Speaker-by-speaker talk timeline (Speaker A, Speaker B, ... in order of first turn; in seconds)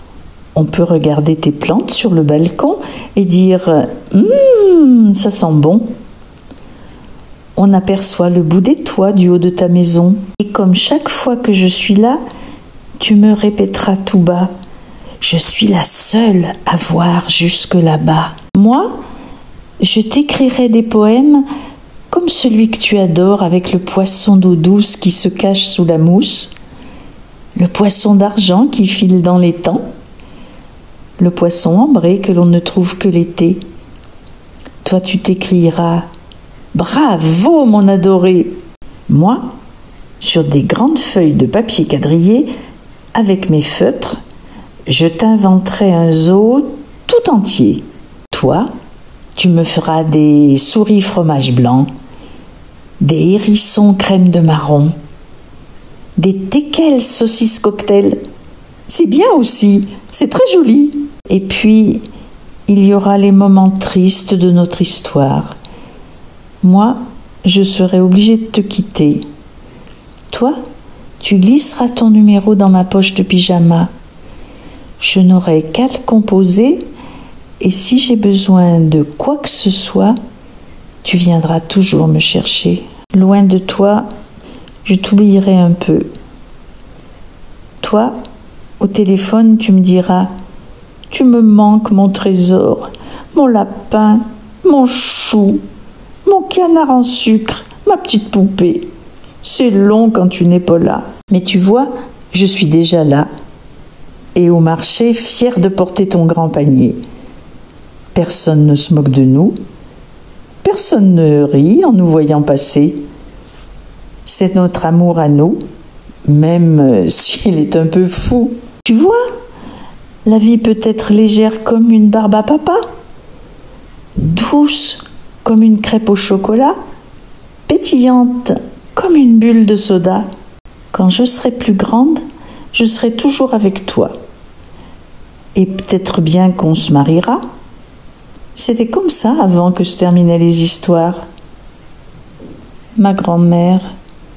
Speaker A: 0.5-5.9, 7.5-12.2, 13.0-14.5, 15.2-19.0, 19.8-21.4, 22.1-26.5, 27.6-29.9, 31.2-33.6, 34.8-36.1, 36.7-38.6, 39.1-39.5, 40.2-42.5, 43.1-44.2, 44.9-48.7, 49.4-51.9, 53.0-55.0, 56.2-58.2, 58.9-62.0, 62.7-65.6, 66.6-69.2, 70.3-70.6, 71.2-73.9, 75.0-76.9, 77.6-80.2, 81.0-84.1, 84.8-86.1, 87.8-88.2, 88.8-90.3, 91.1-95.6, 96.2-98.9, 99.4-103.3, 104.3-107.0, 108.1-109.6, 110.6-113.0, 114.2-115.6, 116.2-119.3, 120.2-122.9, 124.2-126.8, 127.7-130.3, 130.9-134.2, 135.5-137.4, 138.6-141.3, 142.9-143.9